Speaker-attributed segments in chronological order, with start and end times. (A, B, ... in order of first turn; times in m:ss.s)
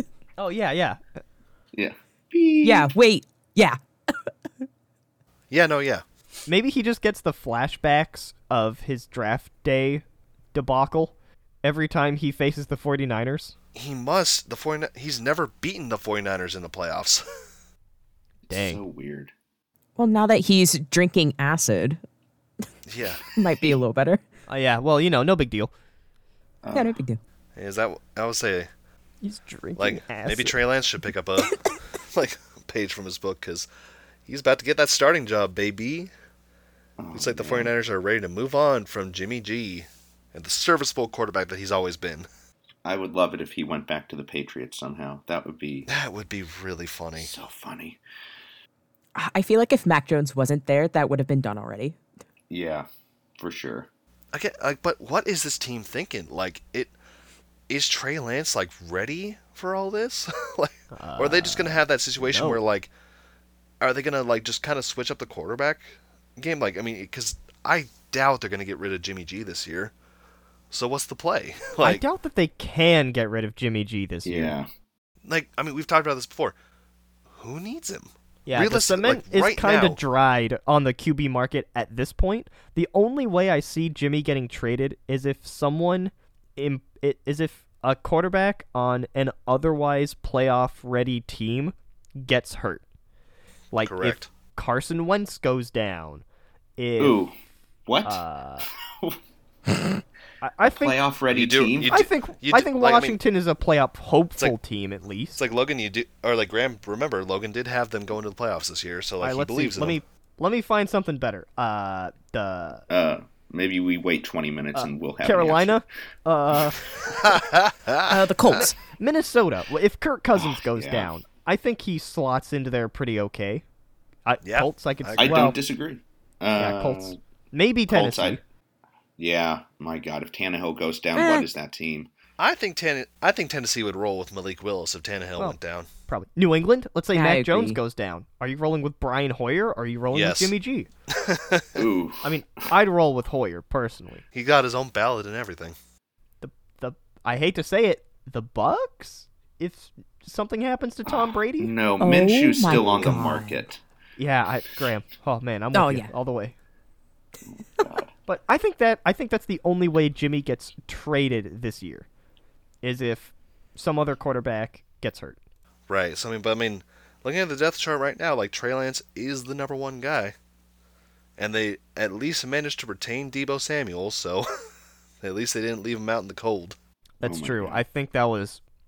0:00.4-0:01.0 A
0:01.7-0:02.9 B
0:02.6-0:04.3 C
0:05.5-0:06.0 D
0:06.5-0:13.5 A
0:13.7-0:17.2 D
0:18.5-0:19.3 B
0:18.5-0:18.8 A
0:20.0-0:22.0 C
0:22.9-0:23.2 D
0:23.3-0:24.2 C
0:24.5-0:25.7 A
0:26.6-0:27.0 B
0:26.7-0:27.2 C
0:27.6-0:28.7 D
0:29.2-0:30.6 A
0:29.8-0:33.7 D
0:34.3-0:36.1 D
0:37.0-0:37.7 B
0:37.1-0:42.3 D
0:42.8-0:45.9 B
0:45.9-0:47.3 D
0:47.2-0:48.0 B
0:49.2-0:52.0 C
0:52.5-0:52.9 B
0:53.4-0:53.9 B
0:54.3-0:56.9 D
0:57.7-1:02.9 D
1:00.9-1:02.6 A
1:03.8-1:09.9 D
1:10.7-1:12.0 D
1:11.8-1:14.5 A
1:14.2-1:14.7 B
1:15.2-1:16.5 D
1:17.3-1:20.0 D
1:18.4-1:32.8 A
1:33.7-1:36.2 A
1:33.8-1:34.3 D
1:36.8-1:37.2 A
1:37.0-1:37.3 B
1:37.8-1:38.2 B
1:38.0-1:38.7 A
1:38.9-1:39.2 B
1:40.4-1:41.0 A
1:40.6-1:42.0 B
1:41.3-1:43.2 D
1:41.9-1:45.4 A
1:45.4-1:50.0 D
1:49.2-1:52.8 A
1:52.9-1:55.8 B
1:54.7-1:57.2 A
1:57.1-1:58.7 D
1:58.1-1:58.8 C
1:58.6-2:03.6 A
2:00.4-2:01.1 B
2:04.2-2:05.6 A
2:04.4-2:05.4 D
2:05.2-2:07.2 B
2:06.6-2:08.4 A
2:07.9-2:08.4 B
2:09.2-2:12.1 B
2:11.1-2:11.5 C
2:12.4-2:15.9 D
2:16.1-2:20.9 A
2:17.1-2:17.8 C
2:20.1-2:20.5 D
2:21.1-2:21.9 D
2:21.8-2:22.3 B
2:22.2-2:24.2 A
2:24.3-2:25.8 D
2:26.4-2:31.7 A
2:31.0-2:33.8 B
2:32.0-2:33.6 C
2:32.7-2:33.2 A
2:34.2-2:36.5 A
2:35.7-2:36.1 C
2:37.4-2:38.1 B
2:38.3-2:42.0 A
2:42.8-2:45.4 A
2:45.9-2:50.3 D
2:51.4-2:54.5 D
2:55.2-2:56.8 D
2:57.2-2:58.6 A
2:57.2-2:57.8 B